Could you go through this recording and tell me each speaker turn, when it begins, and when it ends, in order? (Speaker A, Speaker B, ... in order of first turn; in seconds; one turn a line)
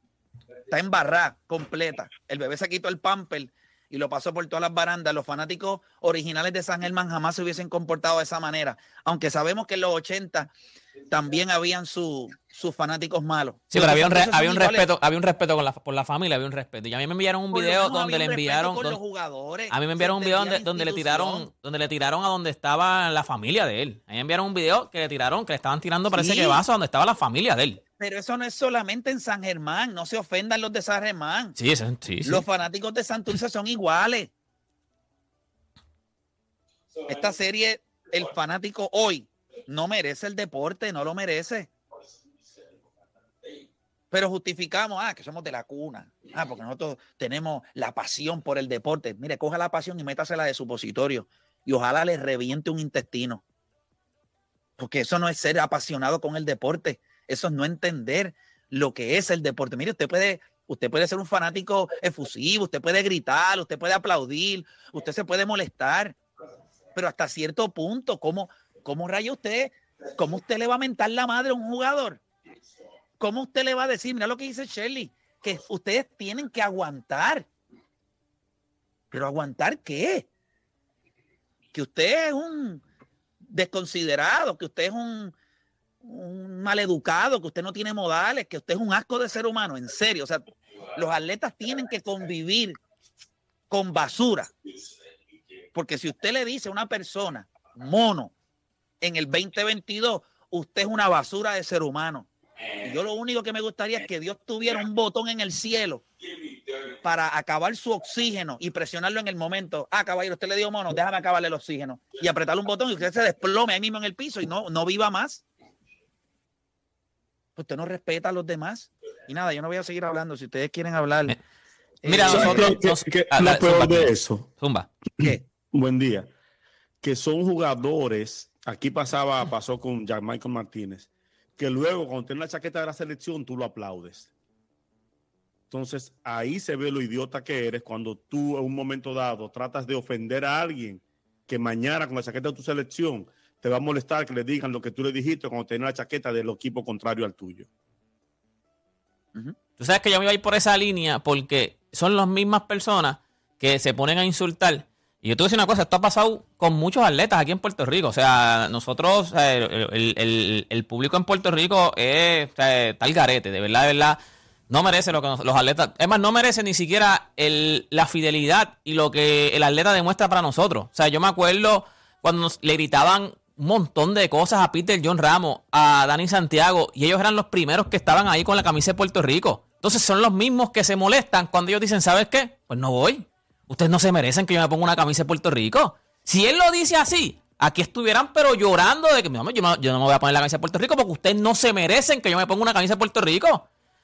Speaker A: 0.7-10.5
Speaker A: 11.1-14.9
Speaker B: 13.7-19.0
Speaker A: 17.5-21.5
Speaker B: 19.7-27.8
Speaker A: 26.1-26.6
Speaker A: 28.0-31.6
Speaker B: 31.6-32.5
Speaker A: 32.2-34.3
Speaker A: 37.1-41.7
Speaker A: 44.1-53.4
Speaker A: 54.8-66.2
Speaker A: 67.0-72.2
Speaker A: 73.2-77.5
Speaker A: 79.1-80.3
Speaker A: 81.7-82.8
Speaker A: 83.5-85.3
Speaker A: 86.0-90.5
Speaker A: 91.0-92.8
Speaker A: 93.7-94.5
Speaker A: 95.7-98.3
Speaker A: 99.0-102.3
Speaker A: 102.8-106.0
Speaker A: 107.0-115.4
Speaker A: 117.6-121.4
Speaker A: 122.0-122.7
Speaker B: 122.0-124.9
Speaker C: 122.3-124.5
Speaker C: 125.7-126.3
Speaker C: 127.0-134.3
Speaker C: 135.7-147.7
Speaker B: 149.8-193.6